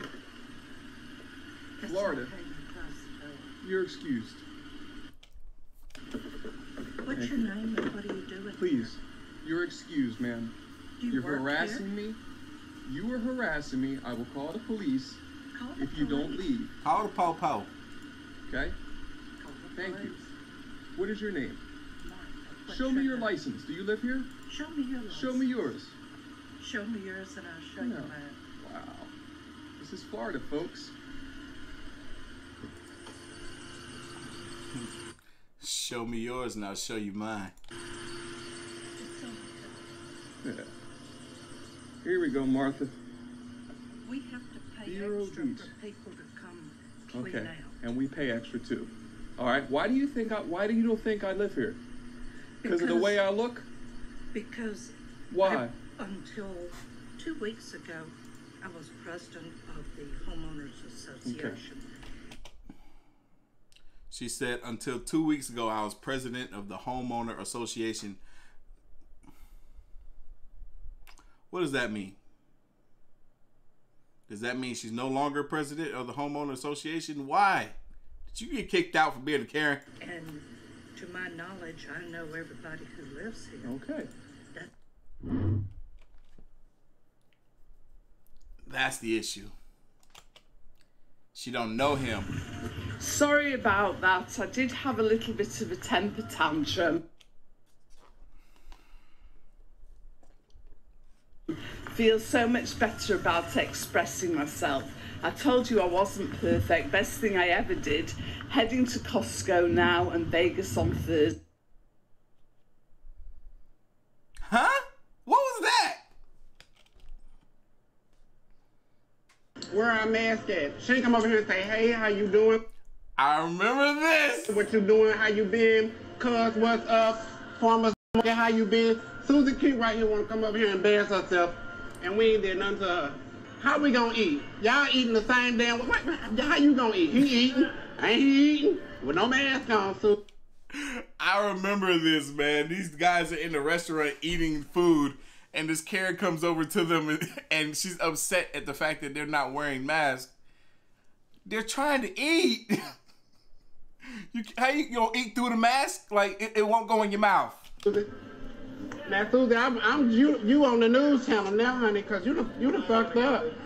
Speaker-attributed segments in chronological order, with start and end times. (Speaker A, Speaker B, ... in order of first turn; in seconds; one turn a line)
Speaker A: 1.8-3.6
Speaker B: 1.8-2.3
Speaker B: 3.6-4.4
Speaker A: 7.0-8.9
Speaker B: 7.1-7.5
Speaker B: 8.6-10.5
Speaker A: 11.0-11.9
Speaker B: 11.1-12.2
Speaker B: 12.9-15.2
Speaker A: 15.5-16.7
Speaker B: 15.8-16.7
Speaker C: 16.8-17.7
Speaker B: 18.5-18.8
Speaker A: 19.4-20.3
Speaker B: 19.8-20.2
Speaker B: 21.0-21.6
Speaker A: 22.0-23.4
Speaker B: 22.7-24.3
Speaker A: 24.5-25.6
Speaker B: 25.1-25.9
Speaker A: 26.6-28.4
Speaker B: 27.8-29.1
Speaker B: 29.8-30.9
Speaker C: 35.6-37.5
Speaker A: 39.0-39.9
Speaker B: 40.4-40.7
Speaker B: 42.0-42.9
Speaker A: 44.0-47.8
Speaker B: 44.9-45.7
Speaker B: 47.1-51.8
Speaker A: 52.6-53.3
Speaker B: 52.6-53.7
Speaker A: 54.3-61.9
Speaker B: 55.3-55.8
Speaker B: 61.2-61.6
Speaker C: 64.1-68.2
Speaker C: 71.5-72.2
Speaker C: 74.3-77.8
Speaker C: 78.3-79.8
Speaker A: 80.0-83.8
Speaker B: 83.6-84.1
Speaker C: 88.7-89.5
Speaker C: 91.3-92.3
Speaker D: 93.0-97.0
Speaker D: 101.5-111.3
Speaker C: 114.5-116.1
Speaker E: 119.7-122.6
Speaker C: 123.2-124.5
Speaker E: 124.5-140.2
Speaker C: 140.8-150.3
Speaker C: 151.5-152.9
Speaker C: 154.3-157.7
Speaker E: 159.1-163.5